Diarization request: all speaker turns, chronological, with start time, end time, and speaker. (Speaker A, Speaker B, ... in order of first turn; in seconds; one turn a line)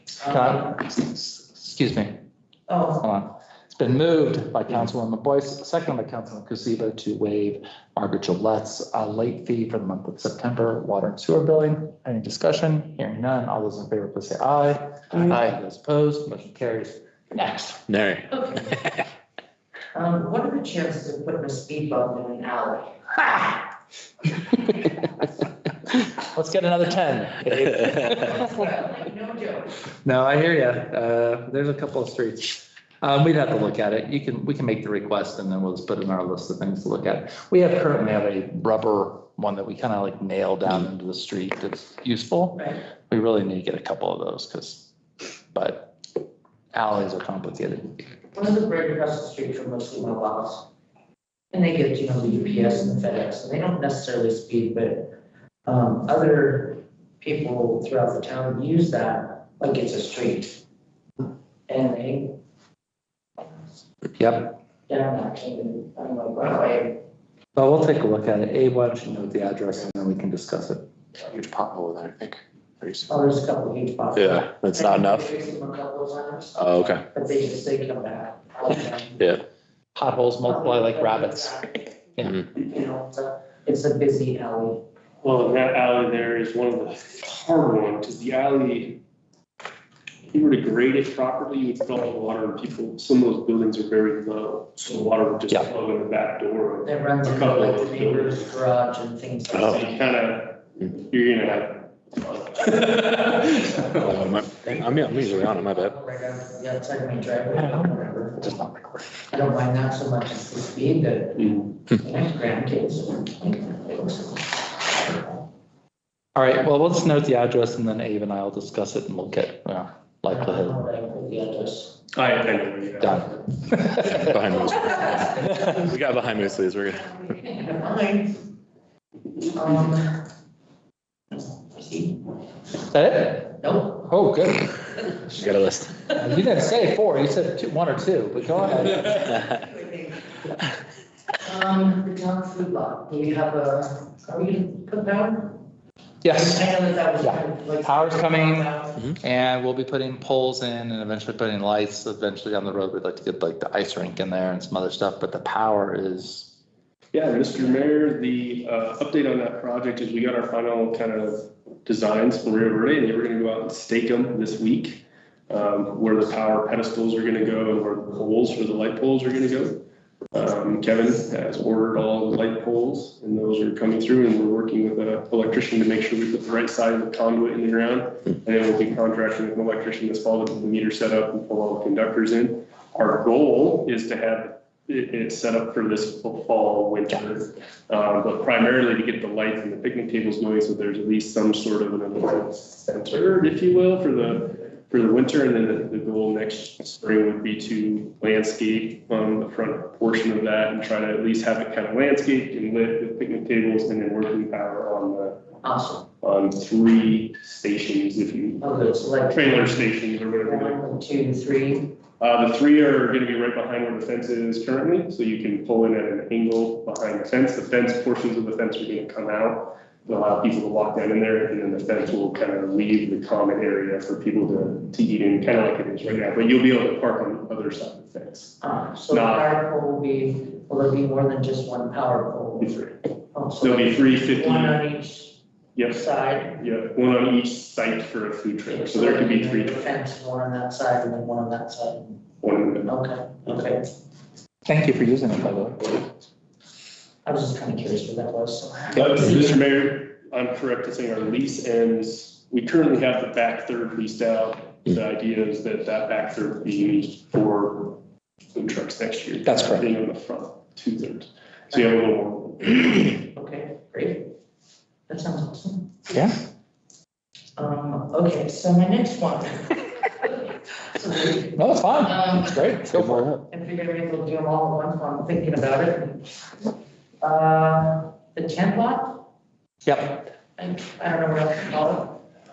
Speaker A: 0.2-0.8
Speaker B: 0.3-2.2
Speaker A: 2.7-3.0
Speaker B: 3.0-17.8
Speaker C: 17.9-18.3
Speaker A: 18.3-18.8
Speaker A: 19.9-23.0
Speaker B: 26.2-28.6
Speaker A: 28.1-29.8
Speaker B: 30.0-44.9
Speaker B: 45.5-46.0
Speaker B: 46.7-48.0
Speaker A: 48.3-50.7
Speaker A: 51.5-60.6
Speaker A: 61.7-62.4
Speaker B: 64.2-64.6
Speaker A: 64.9-67.0
Speaker B: 67.5-70.9
Speaker C: 71.3-73.1
Speaker A: 73.1-79.2
Speaker C: 74.2-75.3
Speaker C: 76.6-77.0
Speaker B: 79.9-81.5
Speaker A: 80.4-84.8
Speaker D: 85.2-89.0
Speaker D: 90.3-98.5
Speaker A: 96.8-100.0
Speaker D: 99.5-104.2
Speaker A: 103.8-108.4
Speaker C: 104.0-105.9
Speaker B: 107.6-109.1
Speaker A: 109.3-115.4
Speaker B: 116.3-120.8
Speaker A: 120.3-122.0
Speaker D: 122.1-123.4
Speaker B: 123.0-124.3
Speaker C: 124.2-127.1
Speaker A: 124.4-125.7
Speaker A: 127.0-128.4
Speaker A: 129.5-130.2
Speaker A: 131.3-132.2
Speaker B: 132.9-134.8
Speaker A: 133.6-134.1
Speaker C: 135.3-136.1
Speaker B: 136.1-139.3
Speaker A: 138.9-140.3
Speaker A: 141.4-145.6
Speaker B: 146.2-146.6
Speaker A: 146.3-149.0
Speaker B: 147.2-156.5
Speaker D: 157.1-205.4
Speaker A: 205.6-206.1
Speaker D: 206.2-208.6
Speaker A: 208.6-209.9
Speaker D: 209.3-210.8
Speaker A: 210.4-211.9
Speaker D: 212.2-228.6
Speaker A: 228.6-235.4
Speaker D: 229.1-229.5
Speaker D: 232.6-232.9
Speaker D: 233.6-234.8
Speaker D: 235.7-239.8
Speaker A: 235.9-236.6
Speaker A: 238.7-242.2
Speaker D: 242.4-242.9
Speaker A: 242.8-243.9
Speaker B: 244.7-246.0
Speaker A: 247.2-249.6
Speaker D: 248.9-258.0
Speaker D: 258.5-263.2
Speaker B: 259.4-259.9
Speaker A: 263.3-264.3
Speaker A: 265.1-265.9
Speaker A: 267.6-272.7
Speaker B: 271.6-273.4
Speaker C: 272.9-273.4
Speaker A: 273.5-276.2
Speaker A: 277.2-279.2
Speaker B: 279.8-280.2
Speaker A: 280.6-282.2